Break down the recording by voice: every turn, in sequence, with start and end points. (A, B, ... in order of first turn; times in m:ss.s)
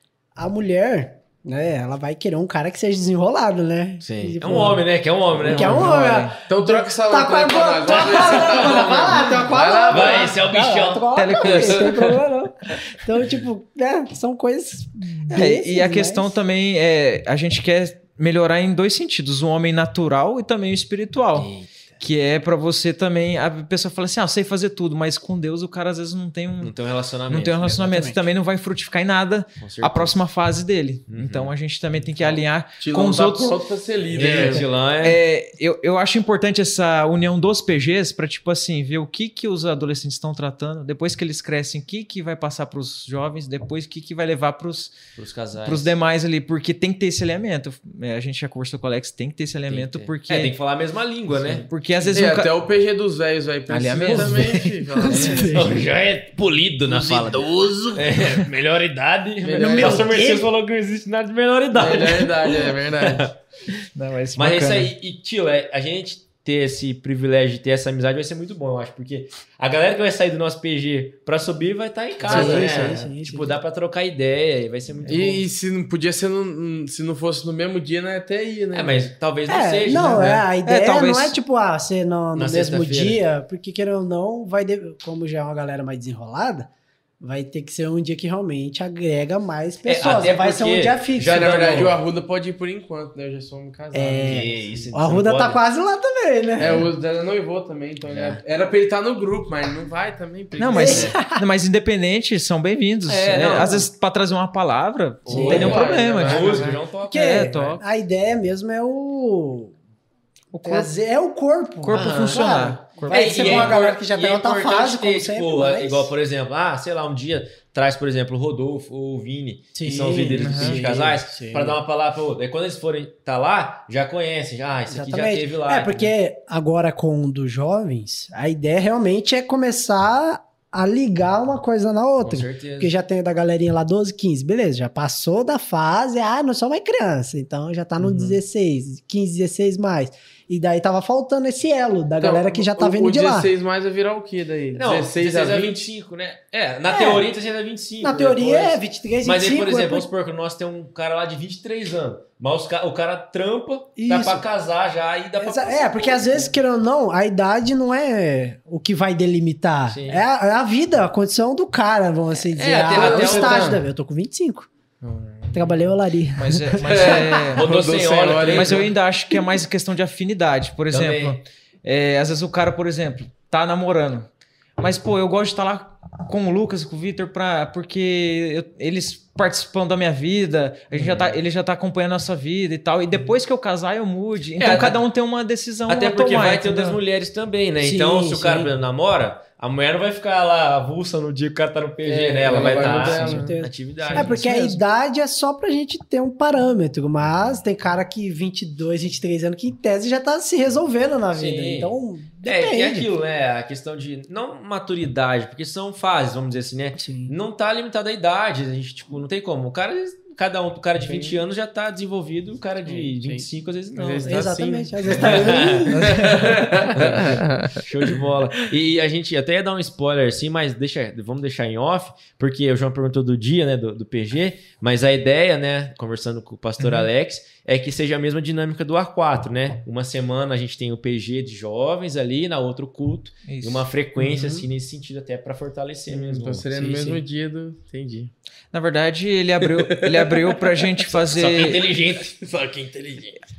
0:00.3-0:04.9 A
0:04.0-0:05.9 B
0:05.4-0:16.4 A
0:05.4-0:05.8 C
0:05.6-0:06.4 D
0:06.4-0:10.3 C
0:08.5-0:08.8 B
0:09.9-0:11.6 B
0:11.1-0:11.9 D
0:11.7-0:12.2 C
0:15.3-0:26.7 D
0:21.3-0:21.7 B
0:26.6-0:27.8 B
0:27.3-0:33.6 D
0:27.6-0:28.2 A
0:29.6-0:30.2 B
0:31.1-0:31.5 B
0:32.8-0:34.6 C
0:34.1-0:35.2 B
0:34.5-0:44.9 D
0:45.2-0:45.9 B
0:45.6-0:50.5 D
0:49.7-0:51.7 B
0:51.7-0:52.5 D
0:52.1-0:55.7 C
0:53.7-0:55.2 D
0:55.0-0:55.8 A
0:55.1-1:03.8 B
0:56.9-0:57.3 C
0:59.4-1:00.1 C
0:59.5-1:00.5 A
1:01.7-1:03.3 C
1:03.9-1:04.9 D
1:04.4-1:15.4 B
1:12.2-1:13.0 C
1:12.3-1:13.6 A
1:15.1-1:19.0 C
1:18.7-1:20.4 B
1:19.5-1:31.8 A
1:19.9-1:21.4 D
1:22.3-1:23.2 B
1:29.8-1:32.0 B
1:31.2-1:34.4 C
1:33.9-1:36.9 A
1:34.2-1:35.6 B
1:36.6-1:41.1 C
1:38.1-1:38.4 B
1:40.6-1:47.8 D
1:40.7-1:41.4 A
1:40.8-1:41.1 B
1:43.1-1:43.9 B
1:45.3-1:46.8 C
1:45.3-1:45.9 A
1:45.3-1:47.5 B
1:47.1-1:49.7 A
1:50.5-1:50.9 D
1:50.6-1:56.1 A
1:51.8-1:53.8 D
1:51.9-1:52.6 B
1:53.1-2:06.1 B
1:59.7-2:01.8 A
2:00.4-2:00.8 D
2:04.9-2:23.5 A
2:12.2-2:12.9 B
2:18.0-2:18.4 C
2:22.2-2:25.9 C
2:24.7-2:36.5 B
2:26.9-2:27.3 A
2:28.0-2:30.1 A
2:34.0-2:34.4 A
2:35.4-2:44.7 A
2:39.9-2:40.2 B
2:42.4-2:43.8 B
2:42.9-2:43.8 C
2:45.0-2:45.8 C
2:45.5-2:47.5 A
2:46.4-2:47.7 D
2:46.8-2:48.9 C
2:47.5-2:48.9 B
2:48.5-3:07.0 D
2:50.9-2:51.4 B
3:00.9-3:01.3 B
3:04.6-3:05.0 B
3:05.9-3:14.4 B
3:07.8-3:08.7 A
3:12.0-3:13.6 C
3:12.6-3:23.1 A
3:14.1-3:14.8 D
3:21.3-3:21.9 B
3:22.4-3:34.4 B
3:27.0-3:27.3 A
3:31.0-3:31.4 C
3:32.8-3:37.8 C
3:34.2-3:36.5 A
3:35.2-3:35.9 B
3:35.9-3:36.9 D
3:36.9-3:57.2 B
3:46.8-3:47.1 D
3:53.5-3:53.8 D
3:54.2-3:54.6 A
3:56.1-3:58.3 C
3:58.7-4:01.9 D
3:59.6-4:00.8 C
4:01.1-4:02.5 B
4:02.4-4:03.3 C